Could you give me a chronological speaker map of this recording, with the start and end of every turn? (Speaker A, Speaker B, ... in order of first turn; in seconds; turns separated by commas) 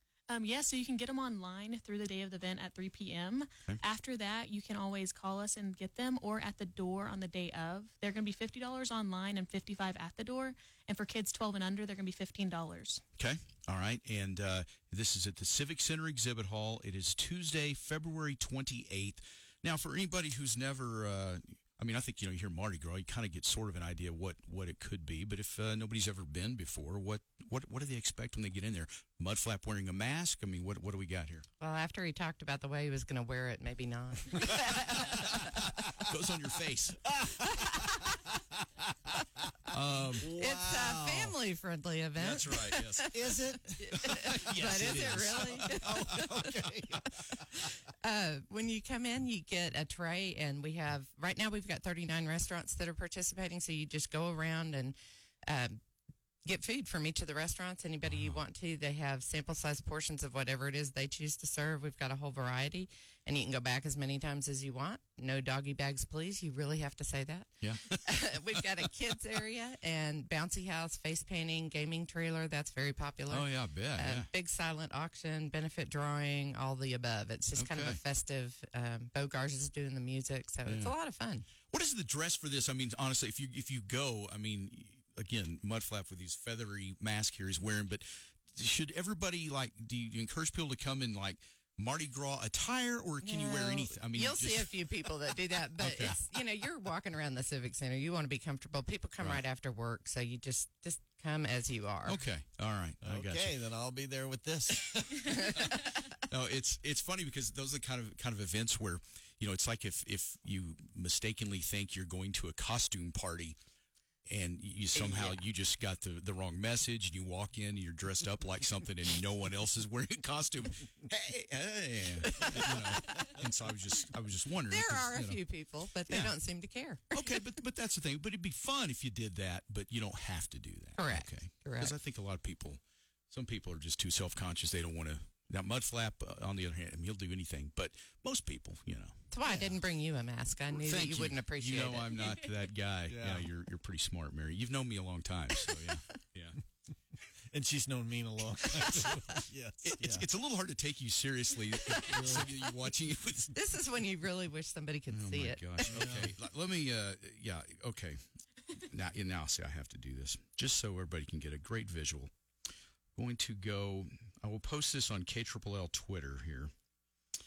Speaker A: 0.3-13.0, Speaker B: 13.2-31.4, Speaker C: 31.6-35.6, Speaker B: 35.0-37.1, Speaker D: 37.2-38.2, Speaker B: 39.7-40.3, Speaker D: 40.2-41.4, Speaker C: 40.4-46.3, Speaker B: 42.2-43.1, Speaker D: 43.1-47.4, Speaker B: 43.8-46.3, Speaker C: 48.0-55.0, Speaker C: 55.5-55.8, Speaker C: 56.4-81.5, Speaker B: 58.0-58.4, Speaker B: 67.6-68.2, Speaker B: 73.3-74.3, Speaker B: 77.5-78.0, Speaker B: 80.7-80.9, Speaker B: 81.7-94.9, Speaker C: 93.2-102.2, Speaker B: 95.8-96.2, Speaker B: 102.0-103.5, Speaker D: 103.0-105.5, Speaker B: 105.4-113.6, Speaker B: 114.3-125.4, Speaker C: 122.4-123.1, Speaker C: 124.7-127.4, Speaker B: 126.1-126.3, Speaker B: 127.1-139.2, Speaker C: 130.9-131.9, Speaker C: 139.3-142.2, Speaker D: 139.5-139.8, Speaker B: 140.8-146.6, Speaker D: 143.1-143.5, Speaker D: 147.5-150.2, Speaker B: 149.8-153.6, Speaker D: 151.9-152.5, Speaker C: 153.5-155.9, Speaker B: 155.1-158.2, Speaker D: 155.9-156.3, Speaker B: 158.7-162.3, Speaker B: 163.2-166.7